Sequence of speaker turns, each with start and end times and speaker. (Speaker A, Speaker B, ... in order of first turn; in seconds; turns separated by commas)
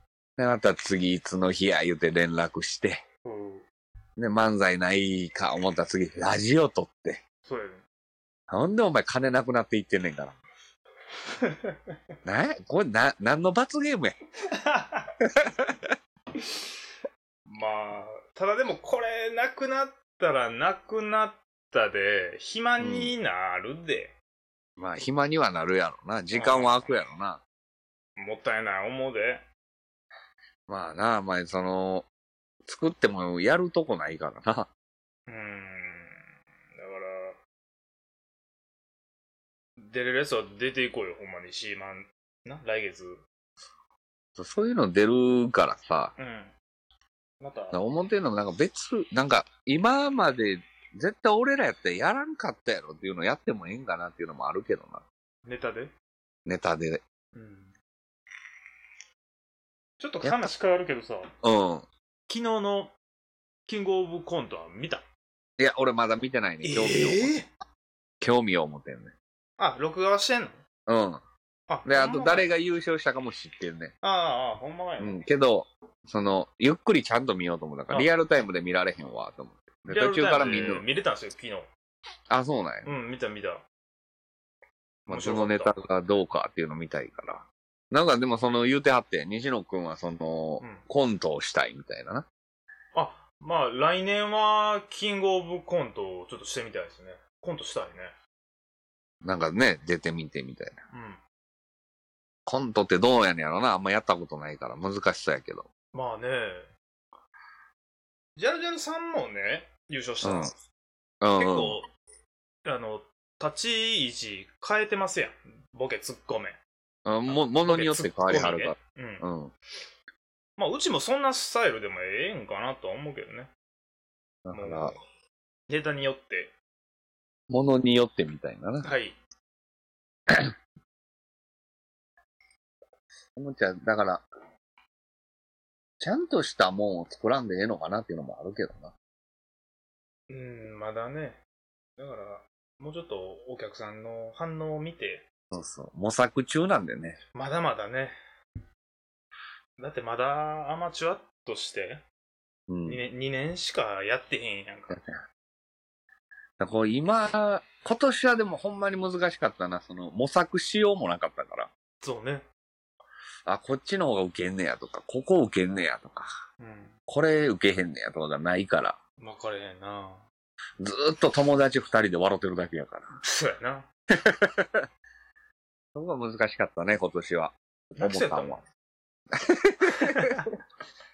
Speaker A: 0.4-3.0, Speaker B: 3.2-3.6, Speaker A: 4.2-7.2, Speaker B: 7.4-7.8, Speaker A: 8.5-10.3, Speaker B: 11.4-11.9, Speaker A: 12.2-14.2, Speaker B: 14.5-15.1, Speaker A: 15.3-15.9, Speaker B: 17.5-24.1, Speaker A: 22.8-23.1, Speaker A: 24.8-27.4, Speaker B: 26.3-26.9, Speaker B: 28.2-29.4, Speaker A: 30.7-32.1, Speaker A: 32.6-34.7, Speaker B: 35.3-36.2, Speaker B: 36.8-37.4, Speaker B: 39.8-43.2, Speaker A: 44.4-46.1, Speaker B: 46.2-46.5, Speaker B: 47.4-47.8, Speaker A: 47.7-55.0, Speaker B: 55.4-55.9, Speaker A: 56.5-57.0, Speaker B: 57.3-57.7, Speaker B: 60.0-61.3, Speaker A: 60.2-60.5, Speaker A: 61.4-61.9, Speaker B: 62.3-62.9, Speaker B: 63.7-65.0, Speaker A: 65.6-67.3, Speaker B: 66.6-67.5, Speaker A: 68.2-69.1, Speaker B: 69.6-70.6, Speaker A: 70.9-71.2, Speaker B: 71.7-72.5, Speaker A: 71.8-73.9, Speaker B: 74.0-75.2, Speaker A: 75.0-80.8, Speaker B: 79.9-81.7, Speaker A: 82.3-82.9, Speaker B: 82.8-83.6, Speaker B: 85.1-85.8, Speaker A: 85.1-92.3, Speaker B: 90.6-90.8, Speaker B: 92.9-98.1, Speaker A: 99.2-100.8, Speaker B: 100.9-101.2, Speaker A: 102.5-105.7, Speaker B: 105.9-106.7, Speaker B: 108.3-110.6, Speaker A: 110.2-110.5, Speaker A: 111.2-111.8, Speaker B: 111.3-111.9, Speaker B: 112.6-116.6, Speaker A: 117.0-119.5, Speaker B: 117.3-119.3, Speaker B: 120.6-123.5, Speaker A: 124.4-125.0, Speaker B: 124.5-125.0, Speaker B: 125.7-126.5, Speaker A: 127.5-128.9, Speaker B: 128.8-129.2, Speaker A: 130.3-130.5, Speaker A: 133.3-134.2, Speaker A: 136.0-138.9, Speaker B: 140.3-141.4, Speaker B: 142.0-145.3, Speaker A: 145.5-147.2, Speaker B: 147.3-148.1, Speaker B: 149.8-152.0, Speaker A: 152.7-153.0, Speaker B: 152.8-155.0, Speaker A: 154.9-155.2, Speaker A: 156.6-161.7, Speaker B: 162.0-162.4, Speaker A: 163.4-166.3, Speaker B: 166.6-166.9, Speaker A: 167.1-169.0, Speaker B: 169.2-170.2, Speaker A: 170.8-173.1, Speaker B: 173.2-173.9, Speaker A: 174.2-174.8, Speaker A: 175.9-178.6, Speaker B: 178.0-178.6, Speaker A: 179.3-180.4, Speaker B: 179.9-180.5